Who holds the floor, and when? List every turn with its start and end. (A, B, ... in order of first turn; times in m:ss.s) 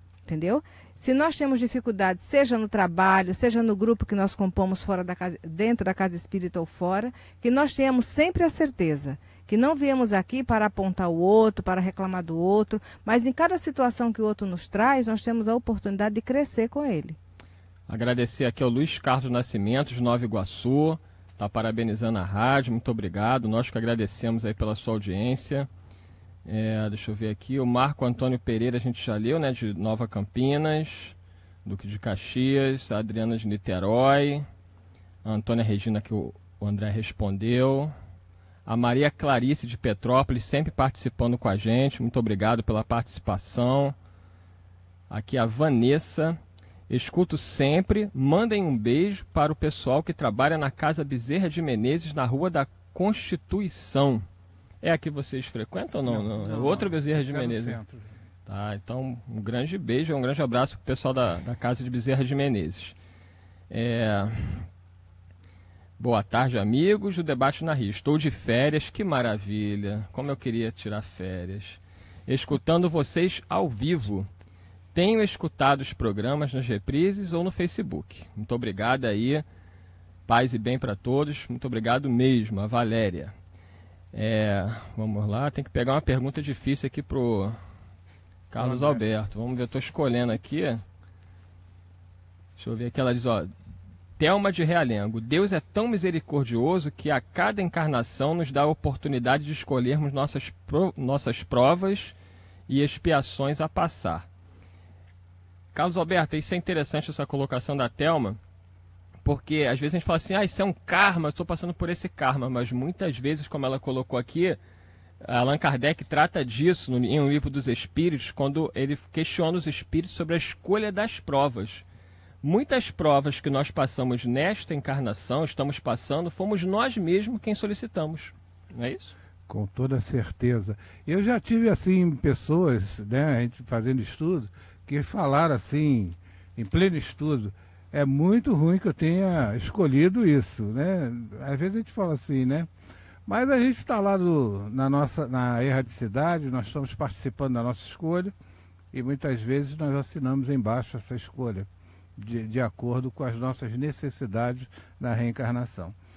0:00.3-0:17.2 A
0:17.9-0:25.7 B
0:26.5-0:34.5 B
0:35.2-0:37.9 B
0:38.7-0:44.0 B
0:45.1-0:54.2 B
0:54.8-0:57.8 B
0:56.1-0:58.1 C
0:58.5-1:03.0 B
1:03.7-1:04.7 B
1:06.0-1:14.3 B
1:14.9-1:19.4 B
1:20.3-1:23.3 B
1:24.1-1:27.6 B
1:28.5-1:30.8 B
1:28.6-1:29.0 C
1:32.6-1:33.5 B
1:34.2-1:42.2 B
1:42.7-1:44.3 B
1:45.7-1:48.4 B
1:49.2-1:54.6 B
1:55.2-2:01.8 B
2:02.4-2:09.2 B
2:09.5-2:22.7 C
2:23.3-2:28.3 C
2:28.9-2:36.0 C